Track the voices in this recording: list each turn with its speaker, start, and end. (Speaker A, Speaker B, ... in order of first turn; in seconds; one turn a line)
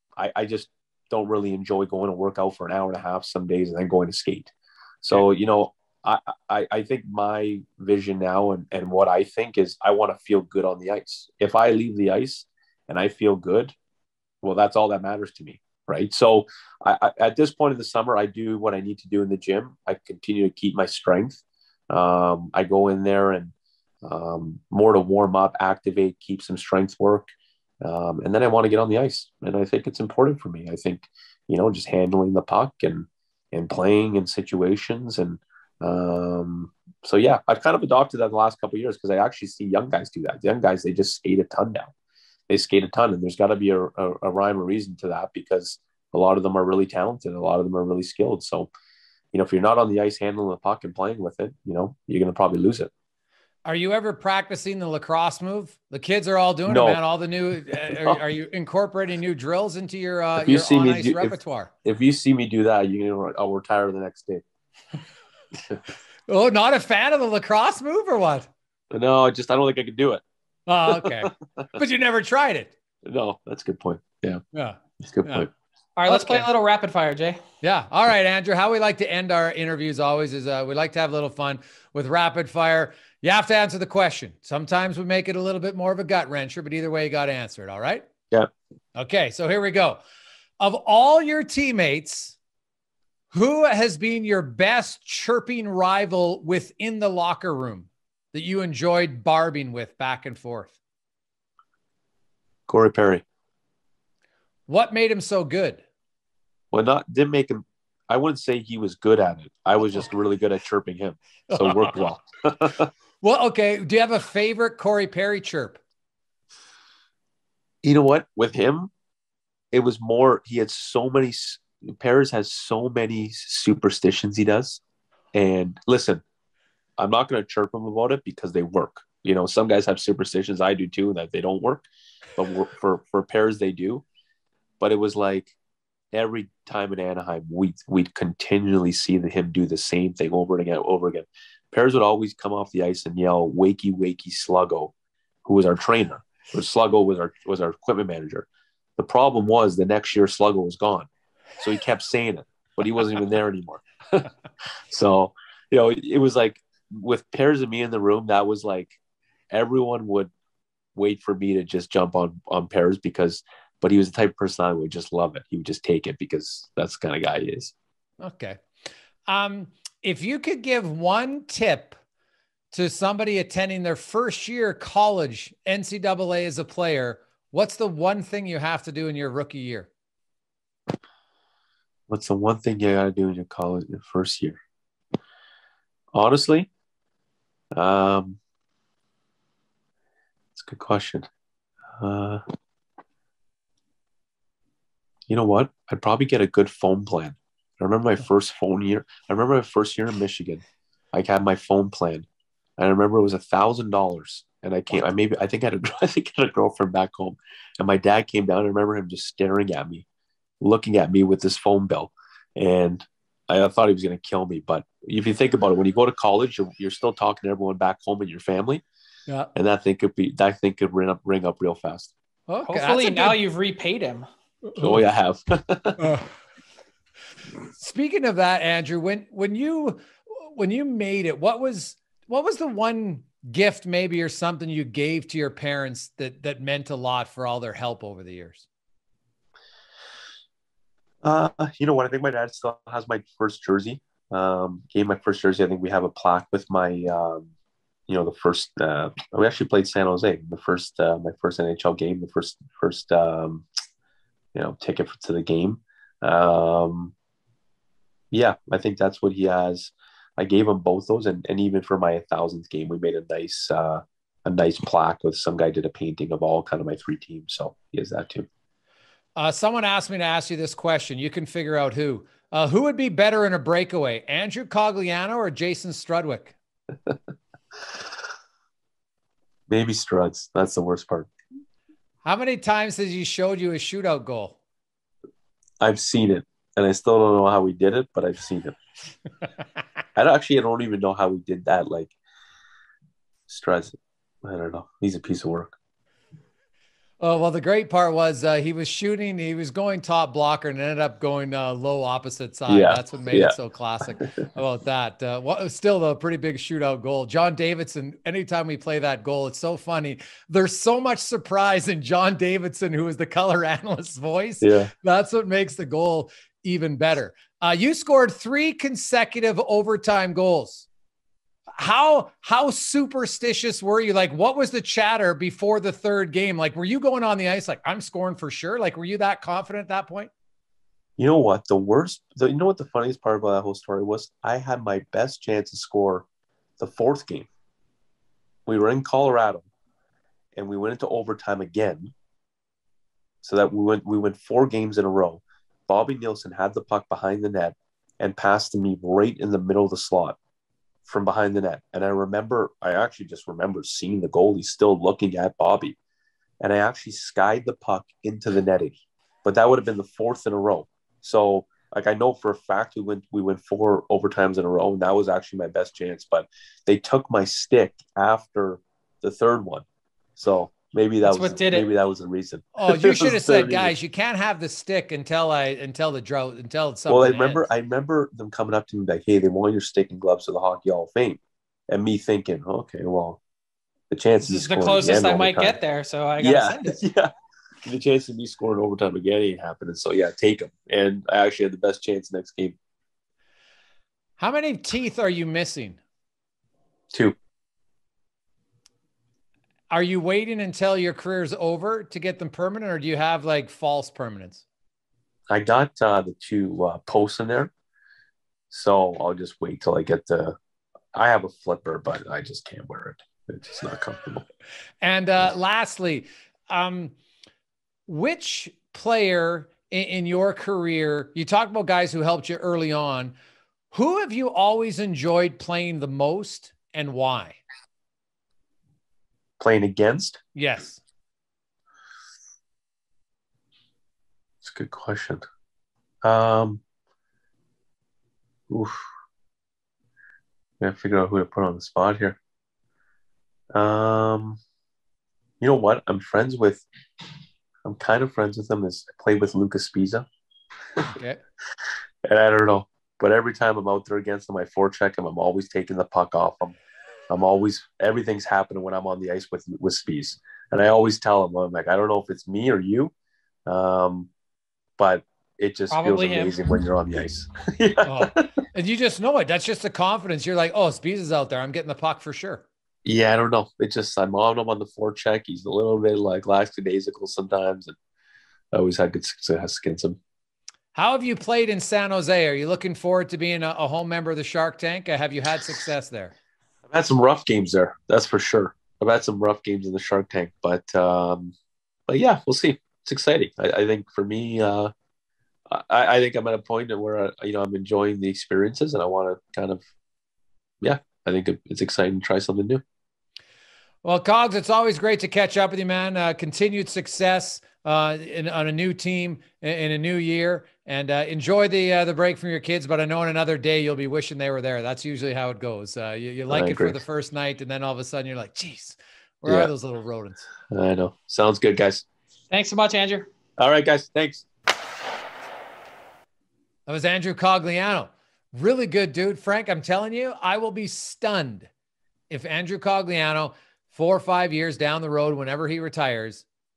Speaker A: 0.2-13.8
Speaker A: 14.4-27.3
Speaker A: 27.8-41.9
Speaker A: 42.5-48.7
Speaker A: 49.3-52.9
Speaker B: 53.6-61.7
Speaker A: 56.7-57.0
Speaker A: 57.9-58.2
Speaker A: 60.4-64.4
Speaker B: 66.3-68.5
Speaker A: 68.9-70.2
Speaker B: 70.7-72.7
Speaker A: 70.9-71.7
Speaker A: 73.0-74.4
Speaker B: 74.5-75.5
Speaker A: 75.0-75.5
Speaker C: 76.0-77.4
Speaker B: 76.1-76.5
Speaker B: 77.6-88.1
Speaker B: 89.0-90.0
Speaker B: 90.6-92.4
Speaker B: 93.3-100.8
Speaker A: 102.7-103.2
Speaker B: 104.7-105.8
Speaker A: 106.7-112.9
Speaker B: 111.5-112.0
Speaker B: 113.2-115.8
Speaker A: 117.8-118.9
Speaker A: 119.7-124.8
Speaker A: 125.3-126.2
Speaker A: 127.0-134.0
Speaker A: 134.8-135.5
Speaker A: 136.1-144.9
Speaker A: 145.4-148.5
Speaker A: 149.0-151.1
Speaker A: 151.6-154.3
Speaker A: 154.9-159.0
Speaker A: 159.5-160.3
Speaker A: 160.9-167.7
Speaker B: 168.2-168.6
Speaker B: 169.3-172.0
Speaker B: 172.7-179.9
Speaker A: 182.1-184.6
Speaker A: 186.1-186.7
Speaker A: 187.8-188.4
Speaker A: 190.6-191.3
Speaker A: 192.0-192.4
Speaker A: 195.3-202.3
Speaker A: 202.8-210.1
Speaker A: 210.6-218.8
Speaker A: 219.6-222.1
Speaker B: 222.5-223.4
Speaker C: 222.7-224.3
Speaker B: 224.7-225.0
Speaker A: 224.8-226.0
Speaker B: 226.0-226.3
Speaker B: 227.8-238.6
Speaker A: 241.2-247.5
Speaker A: 248.1-253.7
Speaker A: 254.6-257.1
Speaker A: 258.3-268.5
Speaker B: 269.4-276.6
Speaker A: 279.7-281.3
Speaker B: 282.2-284.6
Speaker A: 285.8-288.8
Speaker A: 290.2-292.1
Speaker A: 293.5-295.7
Speaker B: 297.2-320.9
Speaker A: 302.7-303.6
Speaker A: 314.6-314.9
Speaker B: 321.8-330.3
Speaker A: 331.2-336.3
Speaker A: 336.8-337.5
Speaker A: 338.7-339.7
Speaker A: 340.6-342.1
Speaker A: 343.4-350.4
Speaker A: 351.1-356.0
Speaker A: 356.6-369.9
Speaker A: 370.4-373.9
Speaker C: 371.2-371.9
Speaker B: 372.8-377.7
Speaker A: 377.1-383.4
Speaker A: 384.1-385.8
Speaker C: 384.4-387.0
Speaker A: 386.4-387.3
Speaker A: 387.8-392.8
Speaker B: 394.4-396.0
Speaker B: 399.9-404.6
Speaker A: 405.5-407.7
Speaker A: 408.7-410.6
Speaker A: 411.1-414.4
Speaker B: 415.0-417.1
Speaker B: 418.1-423.3
Speaker B: 423.9-427.6
Speaker A: 429.6-430.4
Speaker B: 430.6-431.0
Speaker A: 434.6-435.4
Speaker A: 436.2-436.8
Speaker A: 438.7-439.0
Speaker A: 440.8-442.4
Speaker A: 443.7-444.6
Speaker A: 445.6-446.9
Speaker A: 447.9-450.3
Speaker B: 451.0-451.4
Speaker A: 452.2-456.8
Speaker A: 457.3-463.1
Speaker A: 463.7-464.3
Speaker A: 465.0-468.4
Speaker C: 465.9-466.6
Speaker B: 468.1-472.6
Speaker A: 473.1-477.9
Speaker A: 478.7-480.2
Speaker B: 480.9-486.3
Speaker A: 486.9-491.5
Speaker A: 492.1-494.9
Speaker A: 495.7-499.8
Speaker A: 500.8-502.8
Speaker B: 504.0-520.4
Speaker A: 516.5-517.0
Speaker A: 519.4-519.7
Speaker A: 520.7-522.0
Speaker C: 522.5-523.3
Speaker A: 523.6-524.5
Speaker B: 526.9-531.7
Speaker B: 532.3-536.4